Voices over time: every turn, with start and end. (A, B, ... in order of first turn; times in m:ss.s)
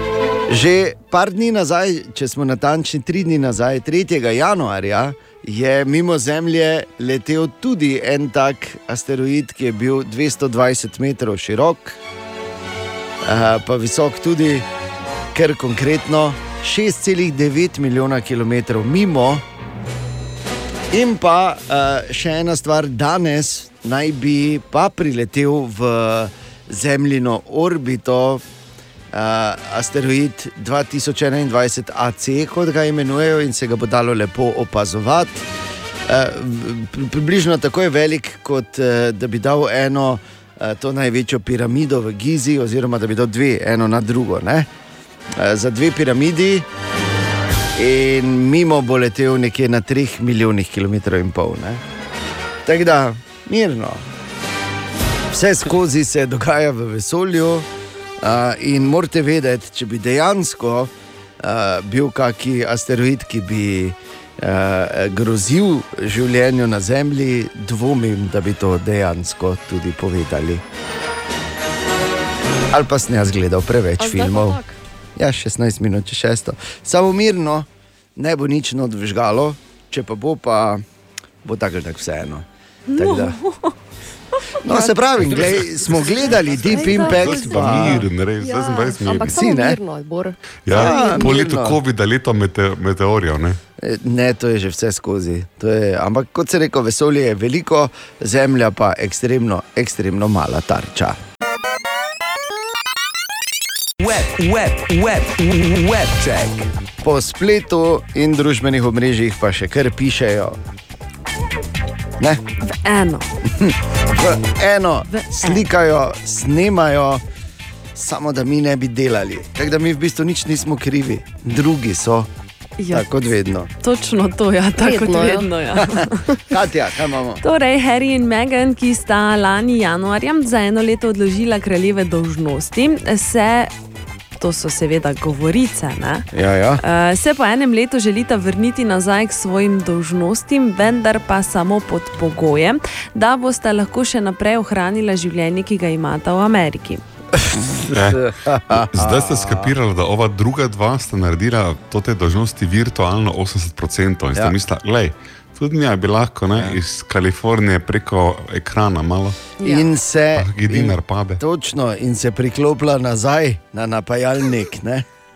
0:00.5-0:12.0 A
0:13.2-0:14.6 A
0:15.3-0:19.4 A
0:20.9-0:28.4 A
0:29.1-0:35.4 A
0:36.1-0:44.7 A
0:45.4-0:46.6 A
0:47.8-0:51.8 A
0:52.6-0:54.0 A
0:55.3-0:57.7 A
0:58.2-1:10.6 A
1:12.7-1:14.6 A
1:14.0-1:14.8 B
1:15.2-1:20.8 A
1:21.4-1:23.4 A
1:22.9-1:23.7 C
1:24.6-1:28.0 A
1:24.7-1:25.4 B
1:26.5-1:29.4 D
1:26.6-1:27.9 C
1:26.7-1:31.3 B
1:29.3-1:29.8 A
1:30.6-1:33.6 D
1:30.7-1:31.8 A
1:33.8-1:41.2 A
1:44.0-1:46.7 E
1:47.0-1:50.6 A
1:52.6-1:53.3 C
1:53.6-1:57.2 A
1:55.1-1:55.6 C
1:57.9-2:02.3 A
2:02.8-2:03.0 C
2:02.9-2:03.7 A
2:03.8-2:06.2 C
2:04.8-2:05.5 B
2:06.5-2:07.4 A
2:07.4-2:13.7 C
2:14.4-2:16.3 C
2:16.3-2:16.8 A
2:16.8-2:27.0 C
2:27.4-2:29.7 A
2:27.9-2:28.2 D
2:28.8-2:39.4 D
2:36.6-2:36.8 A
2:39.6-2:39.9 C
2:39.6-2:45.0 A
2:40.4-2:41.4 D